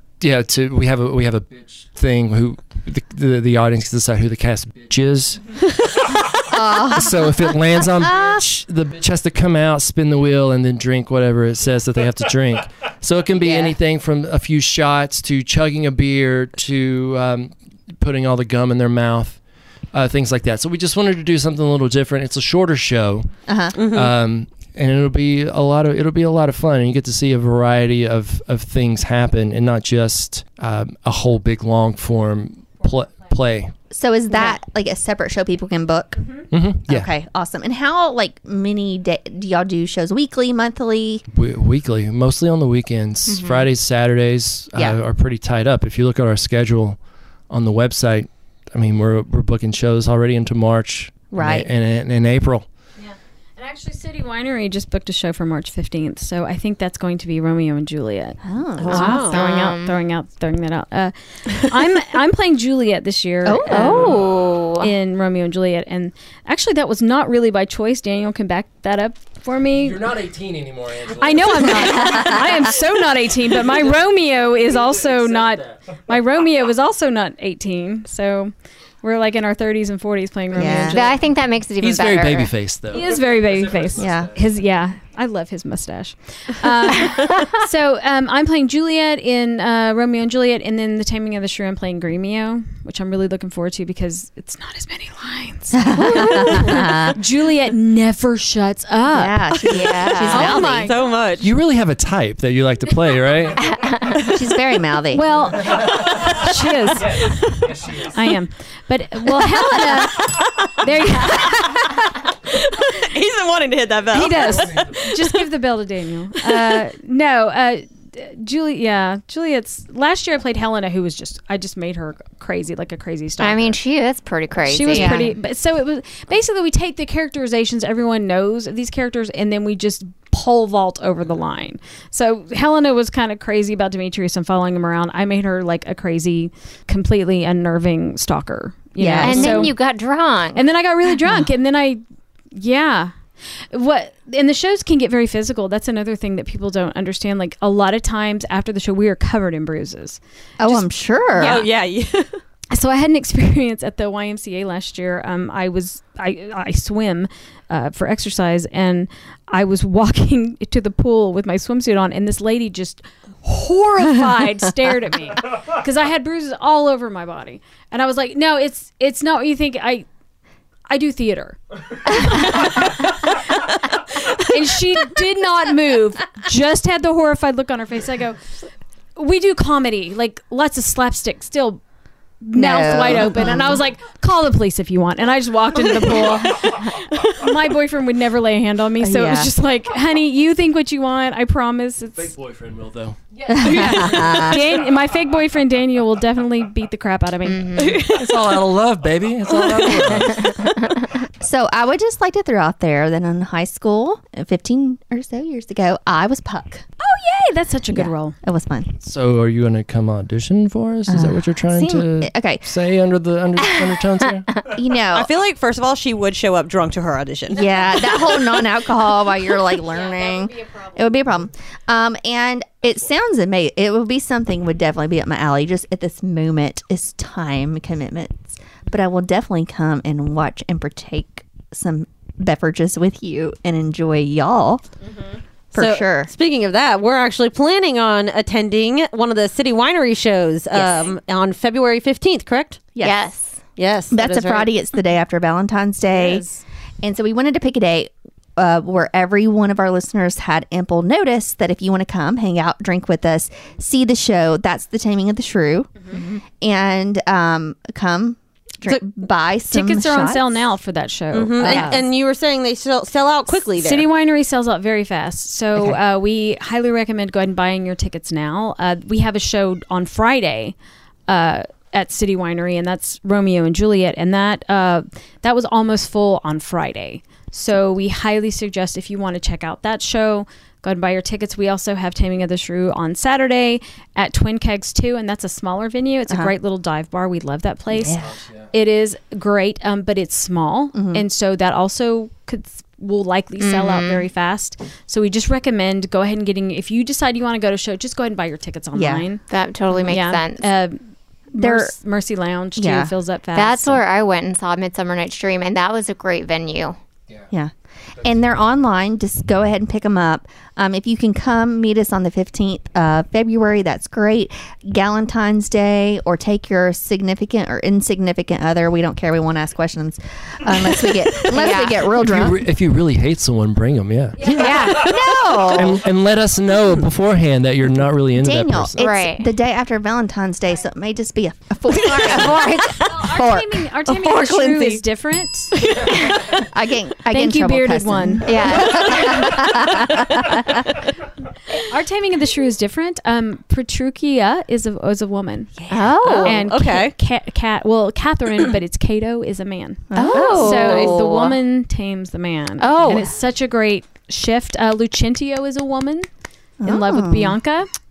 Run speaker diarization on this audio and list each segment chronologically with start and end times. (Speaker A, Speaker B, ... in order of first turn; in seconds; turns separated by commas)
Speaker A: 0.2-5.6, Speaker B: 6.5-7.2, Speaker A: 6.7-19.4, Speaker B: 13.4-13.8, Speaker A: 19.9-33.8, Speaker B: 23.5-23.8, Speaker C: 23.8-24.1, Speaker B: 33.9-36.2, Speaker A: 36.5-37.1, Speaker B: 36.9-41.2, Speaker A: 41.3-47.0, Speaker D: 43.3-43.7, Speaker A: 47.5-52.6, Speaker B: 51.3-51.7, Speaker E: 53.0-64.2, Speaker B: 58.4-59.3, Speaker C: 58.8-59.4, Speaker D: 58.9-60.0, Speaker B: 63.4-64.2, Speaker D: 63.7-64.9, Speaker E: 64.8-70.0, Speaker A: 69.7-72.6, Speaker E: 71.2-78.5, Speaker B: 72.0-72.3, Speaker A: 73.5-74.0, Speaker A: 74.6-75.8, Speaker E: 79.0-81.1, Speaker B: 80.5-81.1, Speaker D: 80.9-82.5, Speaker A: 81.8-84.5, Speaker E: 82.9-99.5, Speaker B: 84.0-84.3, Speaker B: 95.7-97.2, Speaker C: 96.4-96.9, Speaker B: 99.1-100.9, Speaker C: 99.7-101.5, Speaker D: 99.7-100.6, Speaker E: 100.2-101.0, Speaker A: 101.4-103.8, Speaker D: 103.7-104.2, Speaker B: 104.2-105.5, Speaker E: 105.1-112.0, Speaker A: 107.2-108.0, Speaker C: 110.0-115.4, Speaker E: 114.1-123.8, Speaker A: 114.3-115.0, Speaker C: 116.4-116.8, Speaker D: 123.4-125.3, Speaker E: 124.6-139.8, Speaker B: 124.9-125.3, Speaker B: 139.0-139.7, Speaker D: 139.2-140.7, Speaker E: 140.5-142.0, Speaker E: 142.5-143.1, Speaker E: 143.7-151.7, Speaker B: 150.6-151.6, Speaker C: 151.4-152.4, Speaker E: 152.7-170.1, Speaker E: 170.9-173.7, Speaker E: 174.3-178.4, Speaker E: 179.2-181.8, Speaker E: 182.4-192.3, Speaker B: 182.5-183.8, Speaker B: 189.0-189.5, Speaker A: 192.2-193.2, Speaker E: 193.4-197.9, Speaker B: 193.5-194.7, Speaker A: 193.9-194.5, Speaker D: 197.5-198.1, Speaker C: 197.8-198.6, Speaker A: 198.1-200.6, Speaker C: 199.7-200.0, Speaker D: 200.5-201.1, Speaker B: 201.4-206.8, Speaker E: 207.0-208.3, Speaker B: 207.9-208.9, Speaker A: 209.0-214.5, Speaker B: 211.1-212.7, Speaker B: 214.7-215.3, Speaker C: 215.1-218.3, Speaker B: 217.5-234.8, Speaker E: 219.7-221.1, Speaker B: 235.7-236.3, Speaker C: 235.7-243.0, Speaker B: 240.7-241.1, Speaker B: 242.9-243.2, Speaker D: 243.0-243.6, Speaker C: 243.8-244.7, Speaker B: 244.1-246.4, Speaker E: 246.1-246.6, Speaker B: 247.0-260.6, Speaker E: 259.7-262.0, Speaker C: 261.3-264.1, Speaker B: 261.6-262.0, Speaker E: 263.8-270.7, Speaker E: 271.3-299.4, Speaker B: 288.0-288.3, Speaker A: 288.2-288.7, Speaker B: 290.9-291.2, Speaker D: 293.6-294.2, Speaker B: 298.9-299.2, Speaker D: 299.5-300.7, Speaker E: 300.1-301.0, Speaker E: 301.5-304.0, Speaker B: 301.6-301.9, Speaker B: 302.8-303.1, Speaker D: 303.5-306.9, Speaker B: 307.5-322.6, Speaker D: 321.4-322.1, Speaker A: 322.1-325.0, Speaker E: 324.4-324.9, Speaker B: 324.4-326.0, Speaker D: 324.5-325.9, Speaker A: 325.7-329.1, Speaker B: 328.4-333.8, Speaker D: 329.0-329.5, Speaker C: 331.9-332.9, Speaker D: 332.3-332.8, Speaker E: 332.6-335.8, Speaker C: 334.1-335.0, Speaker C: 335.7-336.6, Speaker B: 336.3-340.9, Speaker E: 337.3-338.8, Speaker D: 338.4-339.7, Speaker E: 341.7-345.7, Speaker B: 345.8-346.2, Speaker D: 345.9-346.6, Speaker C: 346.2-347.1, Speaker E: 346.4-356.3, Speaker B: 350.1-351.1, Speaker D: 350.1-351.4, Speaker C: 350.4-351.5, Speaker D: 352.8-353.3, Speaker B: 356.8-357.6, Speaker E: 356.8-357.9